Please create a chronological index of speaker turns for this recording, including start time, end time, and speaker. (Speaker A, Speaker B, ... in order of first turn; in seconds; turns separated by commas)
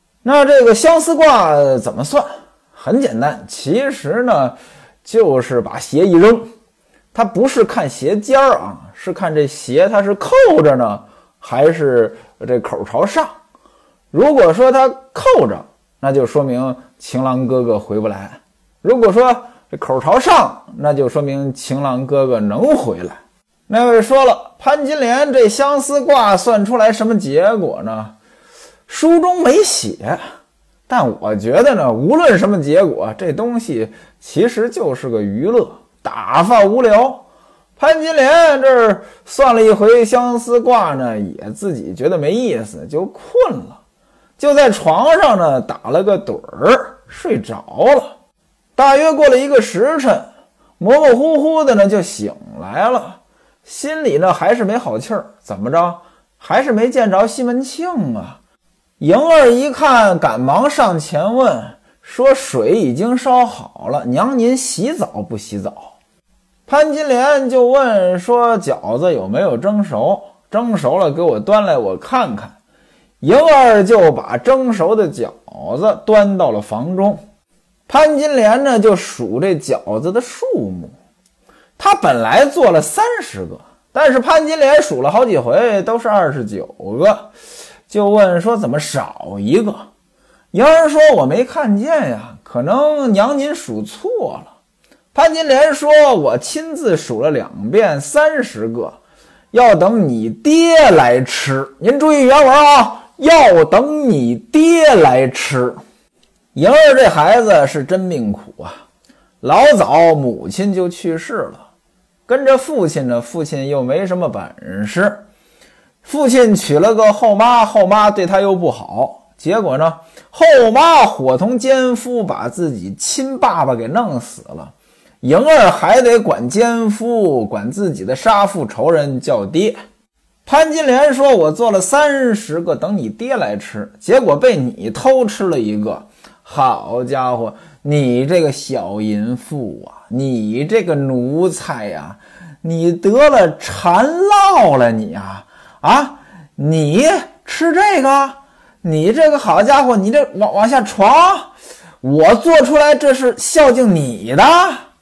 Speaker A: 0.2-6.5, Speaker A: 7.1-13.3, Speaker A: 14.1-23.2, Speaker A: 23.7-28.1, Speaker A: 28.9-30.2, Speaker A: 30.9-37.2, Speaker A: 37.8-43.8, Speaker A: 44.4-48.1, Speaker A: 48.8-50.2, Speaker A: 50.8-58.4, Speaker A: 59.0-65.9, Speaker A: 66.7-72.5, Speaker A: 73.2-77.2, Speaker A: 77.9-80.9, Speaker A: 81.8-87.3, Speaker A: 87.9-89.9, Speaker A: 90.5-94.5, Speaker A: 95.1-99.0, Speaker A: 99.5-105.8, Speaker A: 106.5-108.8, Speaker A: 109.4-111.6, Speaker A: 112.2-115.2, Speaker A: 116.0-129.8, Speaker A: 130.4-154.8